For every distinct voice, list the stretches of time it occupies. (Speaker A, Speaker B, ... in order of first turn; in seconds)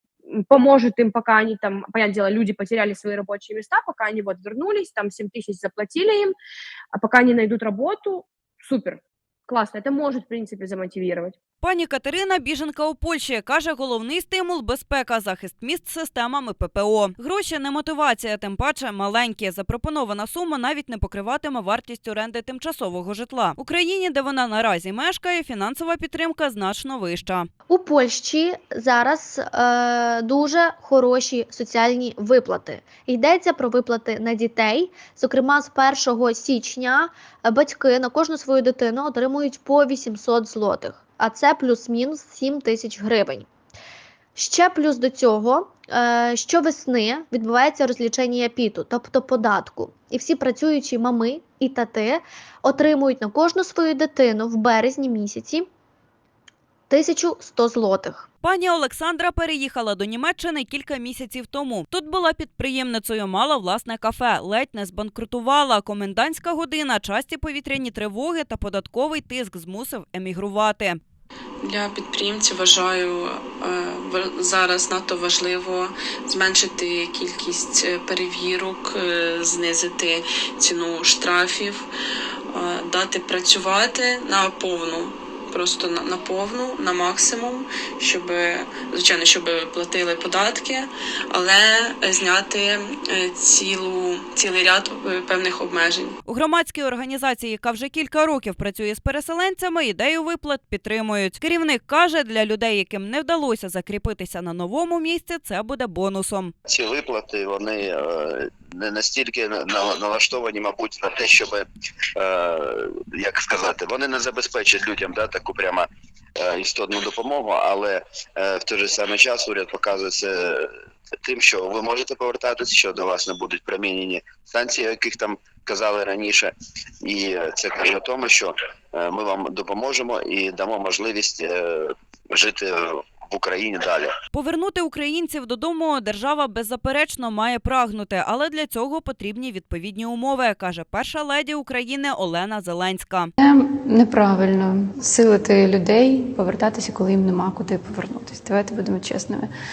Speaker A: 0.3-6.3, 6.9-11.3
Speaker B: 11.6-27.5, 58.4-71.0, 96.2-106.5, 134.3-143.3
Speaker C: 27.7-43.5, 44.4-55.7, 56.9-58.2
Speaker D: 71.6-81.9, 82.5-96.2
Speaker E: 106.7-111.6, 112.2-115.9, 116.4-120.7, 121.2-126.5, 127.0-134.1
Speaker F: 143.4-149.5